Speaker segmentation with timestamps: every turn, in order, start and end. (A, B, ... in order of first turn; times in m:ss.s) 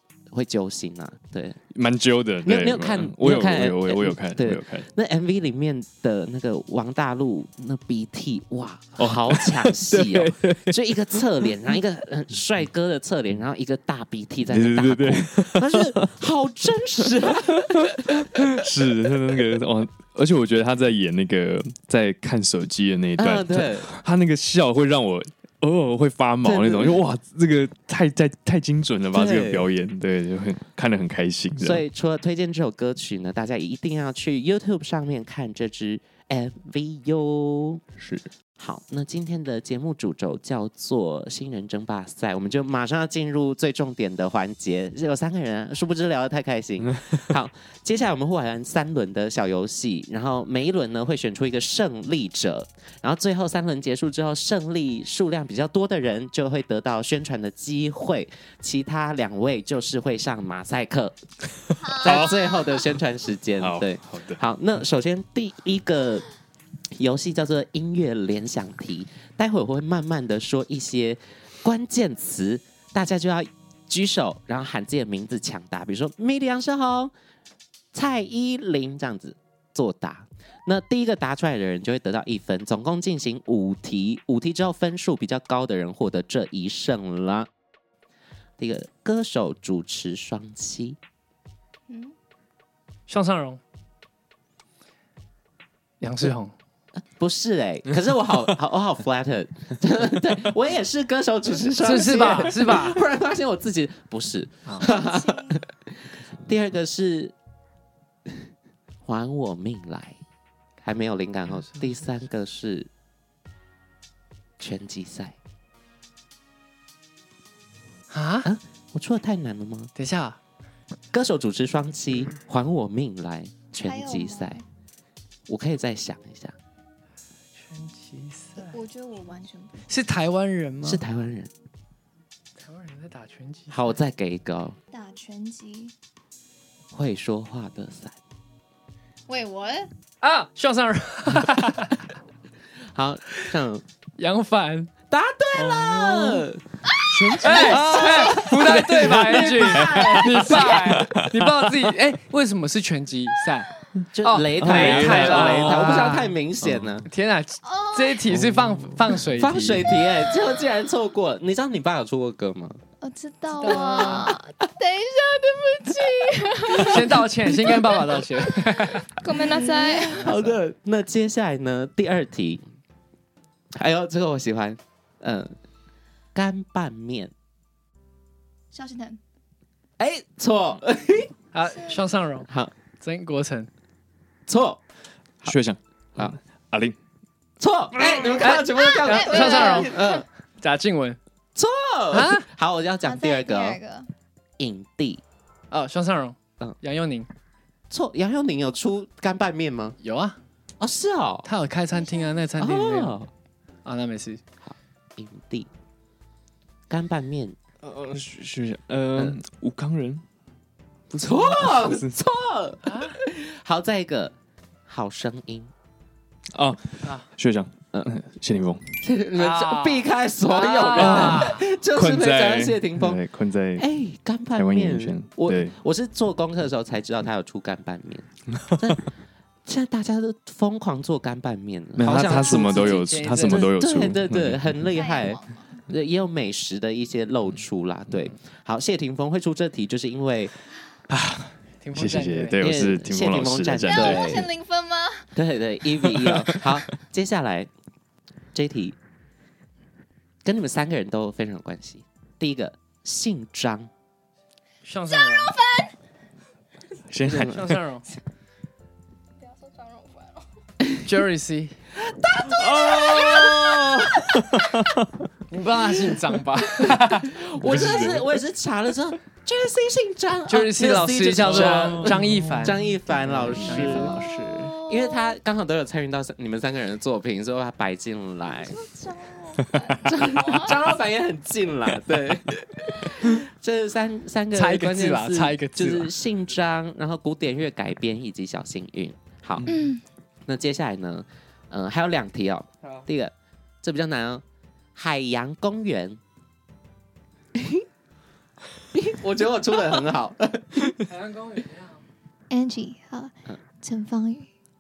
0:00.3-0:01.6 A
0:01.7-0:04.9 B
0:02.4-0:18.6 A
0:09.0-0:11.5 B
0:14.5-0:16.1 B
0:17.0-0:31.8 B
0:23.2-0:23.9 A
0:26.4-0:27.0 A
0:29.1-0:29.7 A
0:31.6-0:37.8 A
0:38.0-0:38.3 B
0:38.6-1:01.1 A
1:01.8-1:02.6 C
1:02.0-1:06.3 A
1:02.0-1:02.3 B
1:03.6-1:04.4 B
1:06.9-1:17.1 A
1:17.9-1:27.5 A
1:28.6-1:31.0 A
1:31.9-1:32.1 C
1:33.1-1:33.6 D
1:36.0-1:36.5 D
1:37.2-1:47.4 A
1:41.8-1:43.0 D
1:44.8-1:45.6 C
1:49.0-1:50.2 A
1:50.8-1:52.9 A
1:51.6-1:52.0 D
1:54.6-1:55.4 A
1:58.1-1:58.5 D
1:58.4-1:59.9 A
2:00.0-2:00.4 D
2:01.1-2:04.6 A
2:03.8-2:04.6 C
2:05.5-2:06.6 A
2:07.6-2:08.8 D
2:08.6-2:09.9 C
2:09.9-2:11.0 D
2:10.8-2:11.5 A
2:12.6-2:14.0 D
2:13.7-2:14.8 A
2:14.9-2:15.9 C
2:16.9-2:18.2 A
2:19.3-2:19.9 C
2:20.2-2:22.1 D
2:22.9-2:23.8 A
2:24.2-2:24.9 D
2:25.1-2:31.0 A
2:25.6-2:26.3 B
2:27.0-2:27.8 C
2:27.4-2:33.7 D
2:27.4-2:31.5 B
2:34.1-2:37.1 A
2:34.2-2:36.4 D
2:34.6-2:36.9 B
2:37.0-2:39.9 D
2:37.6-2:38.3 C
2:38.3-2:39.1 B
2:39.4-2:42.8 A
2:43.0-2:50.2 C
2:43.5-2:44.4 D
2:43.7-2:44.3 A
2:46.7-2:50.6 D
2:49.7-2:52.6 A
2:53.8-2:55.6 A
2:56.4-2:57.3 A
2:58.7-2:59.2 C
3:00.0-3:01.3 A
3:01.5-3:03.7 D
3:01.6-3:02.0 C
3:04.5-3:04.8 A
3:05.4-3:07.0 B
3:07.6-3:10.2 A
3:08.4-3:10.1 D
3:08.7-3:10.2 C
3:10.6-3:11.2 D
3:11.6-3:13.8 A
3:12.1-3:12.5 D
3:13.0-3:14.1 C
3:14.6-3:15.2 A
3:15.7-3:17.3 D
3:17.9-3:20.0 A
3:20.0-3:20.4 D
3:20.8-3:21.5 A
3:21.4-3:23.2 D
3:21.9-3:22.4 C
3:22.6-3:23.3 A
3:23.8-3:24.4 D
3:24.6-3:25.7 A
3:26.9-3:27.6 A
3:27.8-3:30.2 B
3:31.1-3:34.3 A
3:31.2-3:32.1 B
3:32.8-3:33.1 D
3:34.9-3:35.7 A
3:36.5-3:38.9 B
3:39.0-3:43.2 A
3:39.4-3:41.6 D
3:40.8-3:43.8 B
3:43.8-3:49.1 A
3:44.6-3:45.8 B
3:49.7-4:00.5 A
3:52.0-3:54.8 B
3:52.1-3:53.7 D
3:54.9-3:55.8 C
4:01.8-4:02.6 D
4:02.0-4:04.3 B
4:02.6-4:04.5 A
4:03.8-4:05.3 C
4:05.4-4:07.7 A
4:06.0-4:06.8 B
4:08.5-4:09.0 A
4:10.4-4:13.9 A
4:14.8-4:15.6 D
4:15.1-4:15.9 C
4:17.1-4:17.8 B
4:17.3-4:18.1 D
4:19.4-4:20.4 C
4:21.0-4:21.8 D
4:22.1-4:24.1 A
4:22.5-4:25.1 B
4:22.8-4:23.9 C
4:25.5-4:27.3 D
4:26.9-4:34.2 A
4:27.6-4:28.4 B
4:30.5-4:34.7 D
4:31.4-4:34.0 B
4:34.0-4:35.4 C
4:34.8-4:38.8 A
4:38.5-4:40.8 C
4:40.0-4:49.7 A
4:44.5-4:46.1 D
4:49.7-4:50.0 C
4:50.5-4:54.4 A
4:55.0-4:56.2 A
4:57.6-4:57.8 A
4:58.9-5:00.9 A
5:01.0-5:02.0 D
5:02.5-5:04.5 C